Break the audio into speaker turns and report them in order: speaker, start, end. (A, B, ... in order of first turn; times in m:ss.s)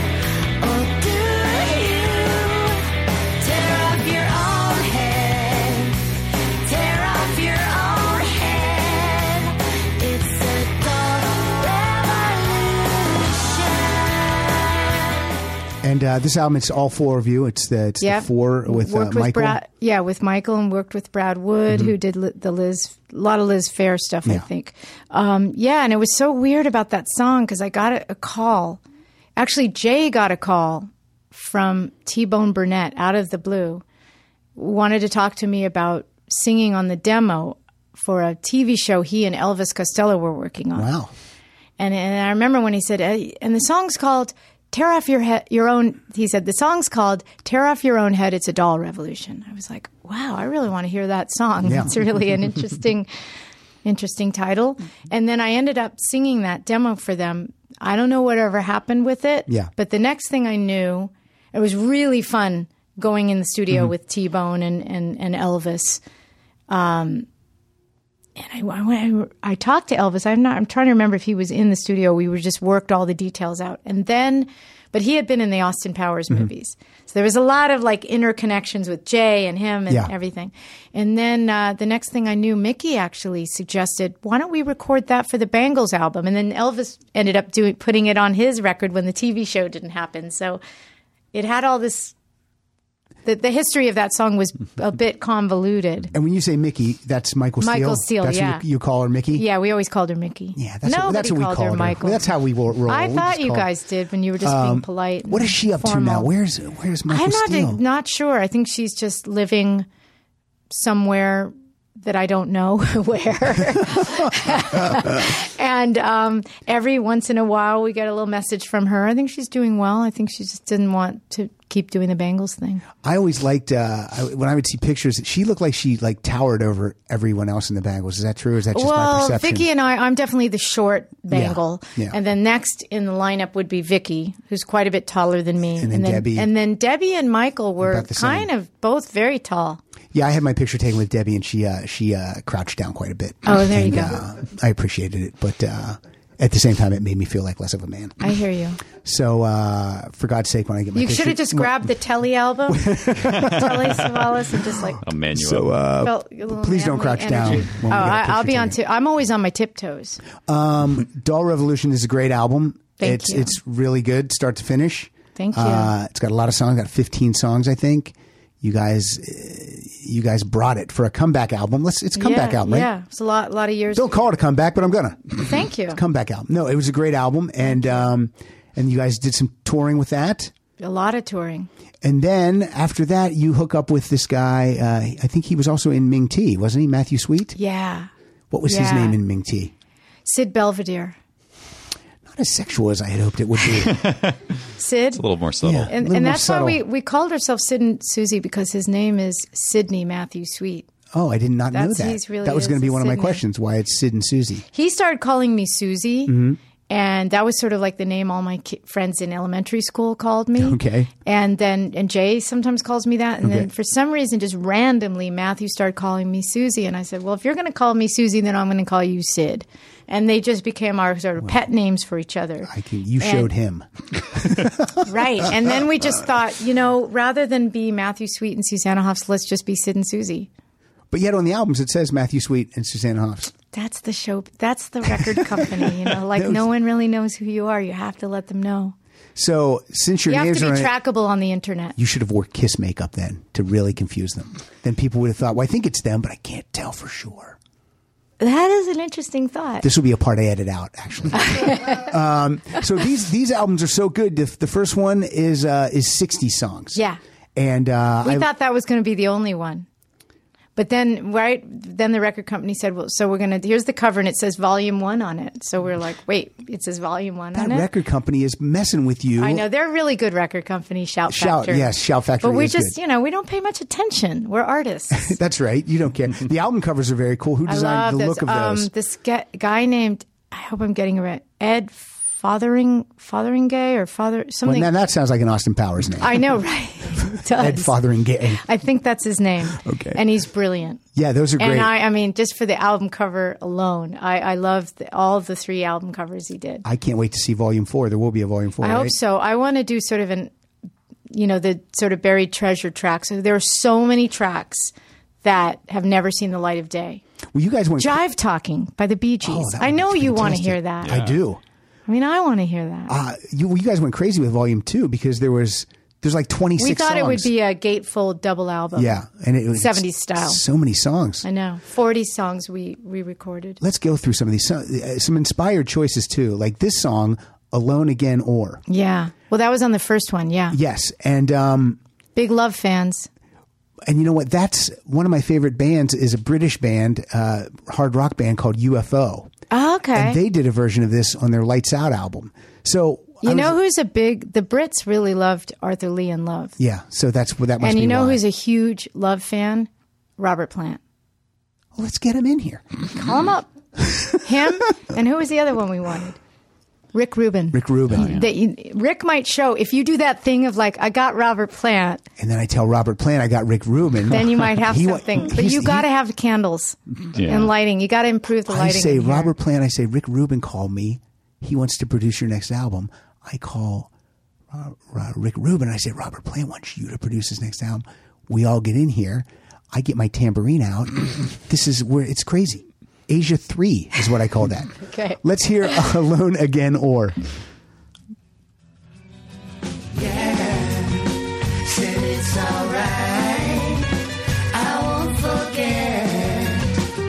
0:00.6-0:02.9 A
0:03.4-0:06.0 A
0:06.6-0:15.1 A
0:15.8-0:19.6 B
0:18.0-0:28.8 C
0:29.4-0:33.8 C
0:34.6-0:40.9 C
0:40.8-0:41.1 B
0:41.8-0:53.1 C
0:51.6-0:51.9 B
0:53.8-1:06.0 C
1:06.7-1:07.3 C
1:08.4-1:30.6 C
1:31.3-1:32.1 C
1:33.2-1:36.1 C
1:36.1-1:39.4 B
1:37.6-1:38.6 C
1:39.3-1:42.2 C
1:40.5-1:43.7 B
1:42.9-1:46.3 C
1:44.4-1:47.8 B
1:47.1-1:49.9 C
1:50.7-2:02.8 C
2:03.0-2:09.7 B
2:08.7-2:19.8 C
2:11.3-2:12.2 B
2:15.8-2:16.5 B
2:17.8-2:18.5 B
2:20.1-2:28.2 B
2:23.4-2:24.2 C
2:28.2-2:28.8 C
2:29.0-2:31.9 B
2:30.9-2:35.0 C
2:32.7-2:34.2 B
2:35.0-2:35.8 D
2:35.3-2:38.8 B
2:36.0-2:40.2 C
2:40.4-2:52.9 B
2:43.0-2:43.6 C
2:45.4-2:45.9 C
2:52.2-2:54.3 C
2:53.9-3:00.5 B
2:55.4-2:56.0 C
3:00.8-3:01.7 C
3:02.0-3:07.6 B
3:07.6-3:08.1 C
3:08.5-3:09.7 B
3:08.6-3:09.2 C
3:10.2-3:11.2 C
3:12.2-3:14.1 B
3:13.9-3:14.4 D
3:14.8-3:15.2 C
3:15.2-3:15.9 D
3:15.6-3:16.8 B
3:15.9-3:20.9 C
3:21.1-3:24.6 B
3:21.7-3:23.4 C
3:24.7-3:43.5 C
3:26.3-3:26.6 B
3:30.6-3:31.1 B
3:33.4-3:33.7 B
3:42.6-3:45.7 B
3:45.0-3:50.5 C
3:51.1-3:53.5 B
3:53.7-3:58.9 C
3:55.2-3:56.6 B
3:59.4-4:00.9 B
4:00.3-4:02.0 C
4:02.0-4:07.6 B
4:08.4-4:09.8 C
4:09.8-4:17.0 B
4:11.3-4:12.0 C
4:17.6-4:18.5 B
4:18.2-4:19.8 C
4:20.8-4:27.9 C
4:27.5-4:29.6 B
4:29.4-4:35.4 C
4:31.3-4:33.0 B
4:35.1-4:38.9 B
4:37.7-4:44.9 C
4:44.6-4:46.5 B
4:46.2-4:47.9 C
4:47.2-4:48.6 B
4:48.5-4:51.0 C
4:49.7-4:50.2 B
4:51.1-4:51.9 B
4:51.6-4:56.8 C
4:56.8-4:59.1 B
4:58.8-5:00.5 C
5:01.3-5:07.2 C
5:07.5-5:08.2 B
5:08.0-5:11.2 C
5:09.4-5:11.6 B
5:11.0-5:11.3 D
5:12.1-5:13.1 C
5:13.1-5:17.5 B
5:16.8-5:19.2 C
5:18.9-5:21.4 B
5:19.7-5:20.6 C
5:21.4-5:23.8 C
5:23.8-5:28.8 B
5:28.9-5:30.8 C
5:30.7-5:32.0 B
5:32.4-5:33.3 C
5:34.0-5:39.5 B
5:39.7-5:40.4 C
5:40.1-5:43.8 B
5:43.4-5:46.8 C
5:46.8-5:48.4 B
5:47.8-5:51.0 C
5:51.9-5:53.0 B
5:53.1-5:53.7 C
5:54.3-5:56.4 C
5:57.1-6:02.2 C
5:57.7-5:58.4 B
5:58.1-5:58.5 D
6:02.4-6:06.1 B
6:04.3-6:09.5 C
6:07.3-6:07.7 D
6:08.7-6:14.1 B
6:14.7-6:27.4 B
6:25.0-6:25.4 C
6:30.2-6:31.2 A
6:31.8-6:34.1 A
6:34.7-6:36.9 A